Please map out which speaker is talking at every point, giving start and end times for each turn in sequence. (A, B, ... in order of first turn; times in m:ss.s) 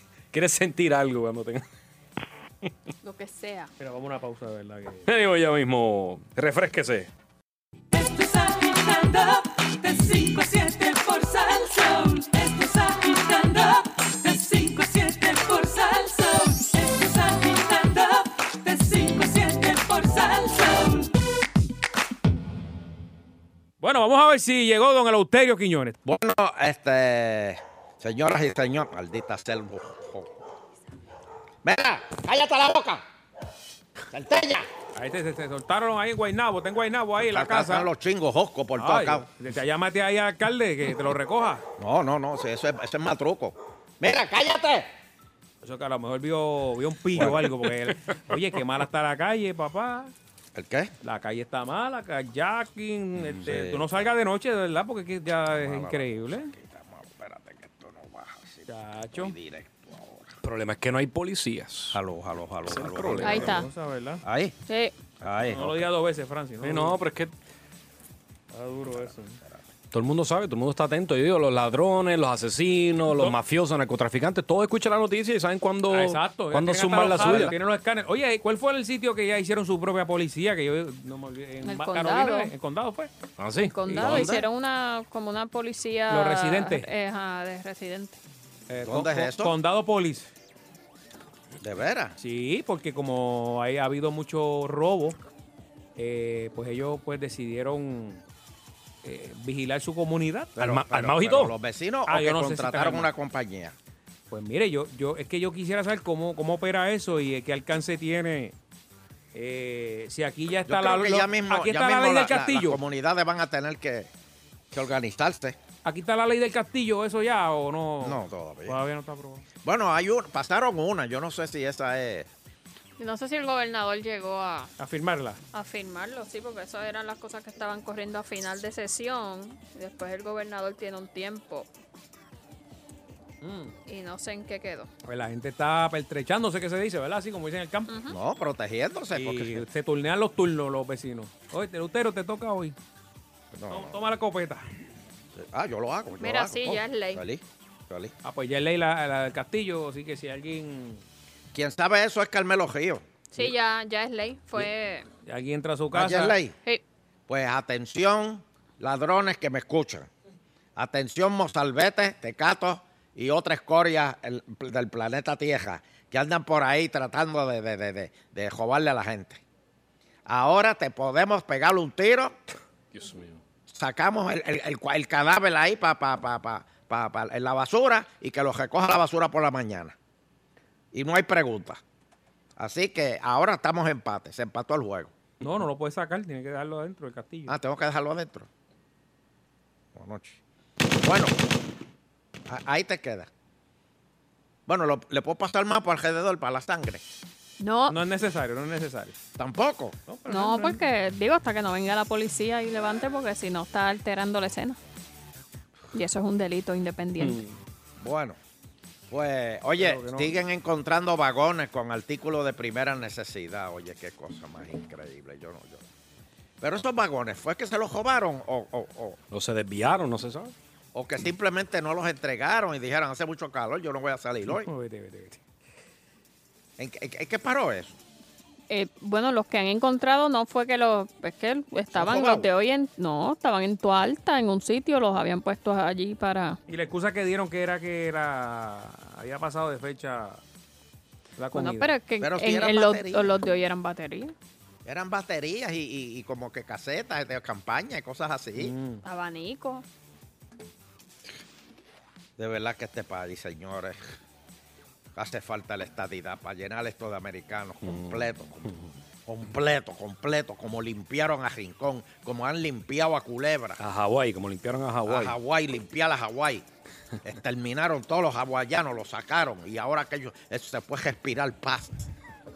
0:00.3-0:01.6 A
0:03.0-0:03.7 B
0:03.8-0:05.1 C
0:05.0-0:07.1 A
0:07.9-0:21.1 D
0:23.8-0:26.0 C
0:26.0-0:30.3 E
0:31.6-0:33.0 E
0:34.1-0:34.7 E
0:34.9-0:37.9 C
0:37.2-0:39.2 E
0:38.8-0:41.6 C
0:41.8-0:44.9 E
0:45.6-0:50.1 C
0:50.5-0:50.9 E
0:51.0-0:56.5 C
0:53.4-0:53.8 E
0:55.5-1:00.4 E
0:58.7-0:59.3 C
1:00.4-1:02.0 A
1:01.9-1:03.5 E
1:02.6-1:03.6 A
1:03.2-1:03.7 B
1:03.3-1:04.2 C
1:04.2-1:04.5 E
1:04.7-1:04.9 B
1:05.2-1:05.8 E
1:05.4-1:07.0 C
1:06.6-1:07.3 A
1:08.5-1:09.4 C
1:08.9-1:09.6 E
1:09.9-1:17.6 A
1:13.1-1:13.4 C
1:15.9-1:23.1 C
1:21.6-1:22.5 B
1:23.4-1:24.2 A
1:23.7-1:28.2 B
1:23.8-1:24.3 C
1:24.0-1:24.4 E
1:26.1-1:26.9 C
1:28.7-1:30.3 C
1:28.8-1:29.5 E
1:31.6-1:32.2 E
1:32.2-1:35.2 C
1:36.0-1:38.2 C
1:39.0-1:40.5 C
1:40.6-1:43.8 E
1:40.6-1:41.5 A
1:42.1-1:43.1 C
1:44.3-1:48.5 C
1:49.3-1:52.8 C
1:50.7-1:54.1 E
1:54.7-1:55.6 E
1:55.8-1:59.4 C
1:58.0-1:58.8 E
1:59.6-2:02.3 E
2:03.0-2:04.7 B
2:04.8-2:05.4 C
2:05.5-2:11.7 B
2:13.4-2:13.7 C
2:13.8-2:14.9 B
2:15.0-2:17.9 C
2:17.9-2:18.2 B
2:18.1-2:19.6 E
2:19.1-2:22.7 C
2:23.5-2:24.0 E
2:23.7-2:24.6 C
2:25.4-2:28.1 E
2:26.2-2:27.2 B
2:28.2-2:31.0 C
2:31.5-2:33.0 E
2:33.3-2:35.0 B
2:35.2-2:36.4 C
2:35.9-2:36.5 E
2:37.3-2:40.1 E
2:40.8-2:49.4 E
2:50.2-2:52.4 E
2:52.9-2:53.4 A
2:53.7-3:00.0 E
3:00.9-3:01.8 E
3:02.6-3:05.1 E
3:05.4-3:07.5 C
3:07.5-3:08.5 E
3:09.9-3:10.4 E
3:11.0-3:11.4 E
3:12.5-3:13.3 E
3:14.7-3:17.0 E
3:17.6-3:18.0 B
3:17.9-3:19.1 C
3:19.4-3:20.0 E
3:20.1-3:20.8 C
3:20.3-3:24.8 B
3:25.9-3:27.4 B
3:27.2-3:27.5 A
3:28.0-3:28.4 E
3:29.1-3:35.8 E
3:29.8-3:30.4 C
3:36.6-3:39.2 E
3:39.3-3:40.5 A
3:40.9-3:44.7 E
3:44.5-3:45.4 C
3:46.8-3:48.0 E
3:48.7-3:56.6 B
3:51.9-3:52.5 E
3:56.7-4:00.4 C
4:01.4-4:01.9 C
4:01.5-4:04.3 B
4:02.2-4:03.4 E
4:04.8-4:08.7 E
4:08.6-4:09.0 C
4:09.0-4:09.8 B
4:12.4-4:14.0 E
4:15.2-4:23.8 E
4:17.8-4:18.2 A
4:23.8-4:25.4 A
4:25.0-4:26.6 E
4:27.2-4:32.0 E